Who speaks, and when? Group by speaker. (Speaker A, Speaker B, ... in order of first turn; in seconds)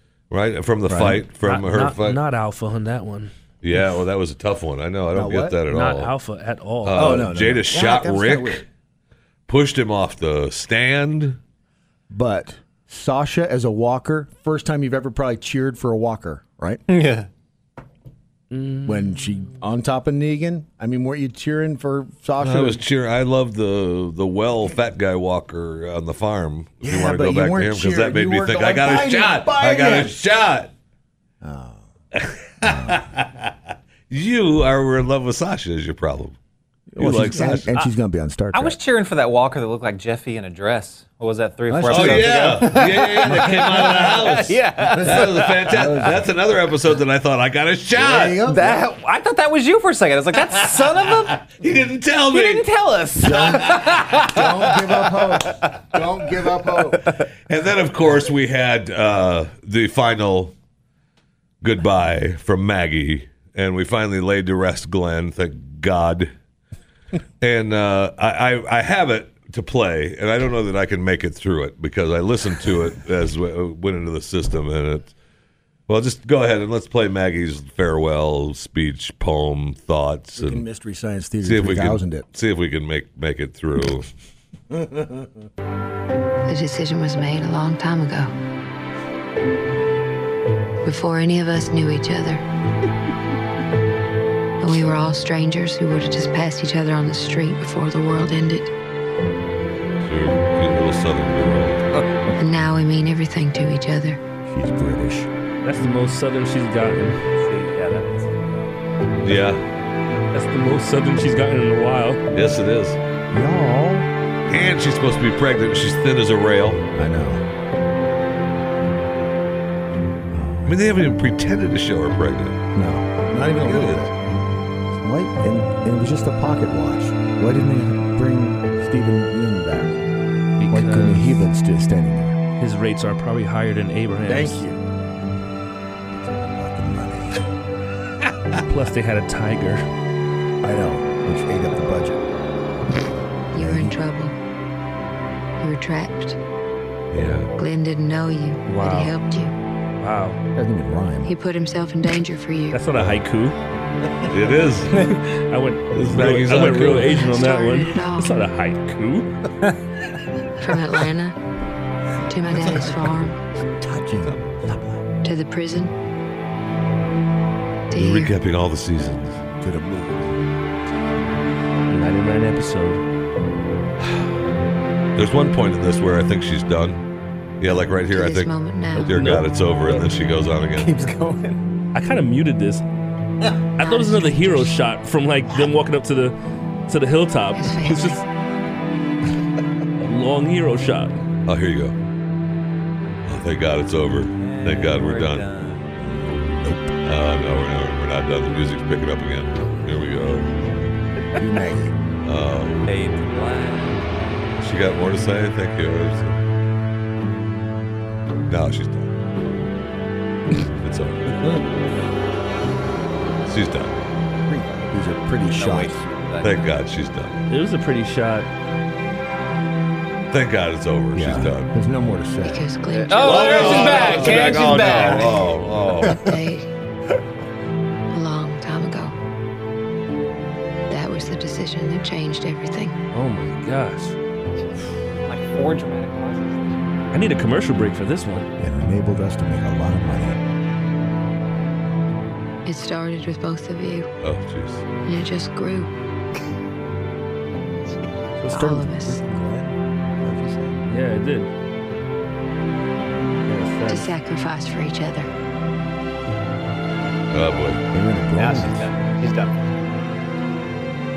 Speaker A: 0.3-2.2, 3.6-6.1, 6.8-8.7, 9.5-11.4, 22.4-30.7, 32.1-33.5, 34.1-36.4, 37.0-37.7, 41.9-48.4, 50.6-52.7, 57.5-60.5, 61.6-66.3, 67.4-75.1, 75.9-80.7, 81.4-84.1, 100.0-101.8, 109.2-109.6, 112.3-113.0, 114.5-116.8, 120.7-122.6, 123.6-124.1, 147.1-147.5, 154.3-155.1, 155.9-157.1, 167.9-169.4, 174.0-174.3, 175.2-177.0, 177.6-181.0, 191.4-191.9, 193.2-195.5, 197.0-200.7, 202.2-202.9, 204.6-206.4, 208.5-209.1, 210.7-211.7, 213.4-214.0, 216.4-217.4, 220.3-221.7, 223.1-226.2, 244.2-244.8, 257.3-257.8
Speaker B: 0.9-1.2, 5.1-5.6, 6.9-8.6, 12.1-16.8, 18.8-22.8, 26.8-30.2, 31.4-31.8, 32.6-33.0, 36.9-38.8, 41.7-46.2, 47.9-48.8, 53.2-57.0, 80.4-82.2, 84.7-85.3, 104.5-105.3, 113.3-114.1, 117.0-117.4, 120.3-120.8, 122.7-124.2, 124.9-130.0, 130.7-132.4, 134.3-134.8, 136.2-137.4, 140.6-142.2, 143.5-144.0, 150.6-151.3, 162.4-163.2, 163.8-165.0, 169.6-170.3, 196.0-196.9, 201.3-202.0, 214.5-216.0, 221.1-222.7, 238.6-240.4, 248.4-250.8, 257.9-258.8
Speaker C: 1.0-3.3, 5.7-7.3, 18.5-19.3, 105.6-107.2, 110.3-112.2, 130.6-131.4, 132.6-134.6, 138.7-139.8, 148.6-149.2, 150.0-150.4, 152.7-153.6, 155.0-159.3, 171.9-173.0, 178.9-180.0, 181.9-182.8, 183.8-186.3, 186.9-188.2, 190.0-191.2, 217.5-218.5, 233.1-234.2, 237.1-238.5, 250.9-251.5, 253.4-254.1
Speaker D: 16.9-17.3, 38.5-45.5, 48.5-51.5, 52.3-55.8, 107.3-108.7, 180.8-181.6, 194.4-195.9, 202.8-204.0, 215.5-216.7, 222.9-225.4, 235.2-236.9, 258.4-259.8
Speaker E: 86.5-88.3, 90.8-92.4, 94.6-98.7, 102.4-104.2, 143.5-144.3, 145.6-146.4, 147.6-149.5, 151.2-152.8, 157.1-158.3, 160.6-161.3, 162.3-163.4, 165.2-165.9, 167.9-168.3, 178.1-179.1, 183.8-184.8, 187.5-188.2, 222.4-224.8, 226.0-226.7, 228.1-229.1, 230.9-232.9, 242.7-244.1, 245.0-245.9, 248.5-249.2, 253.9-255.3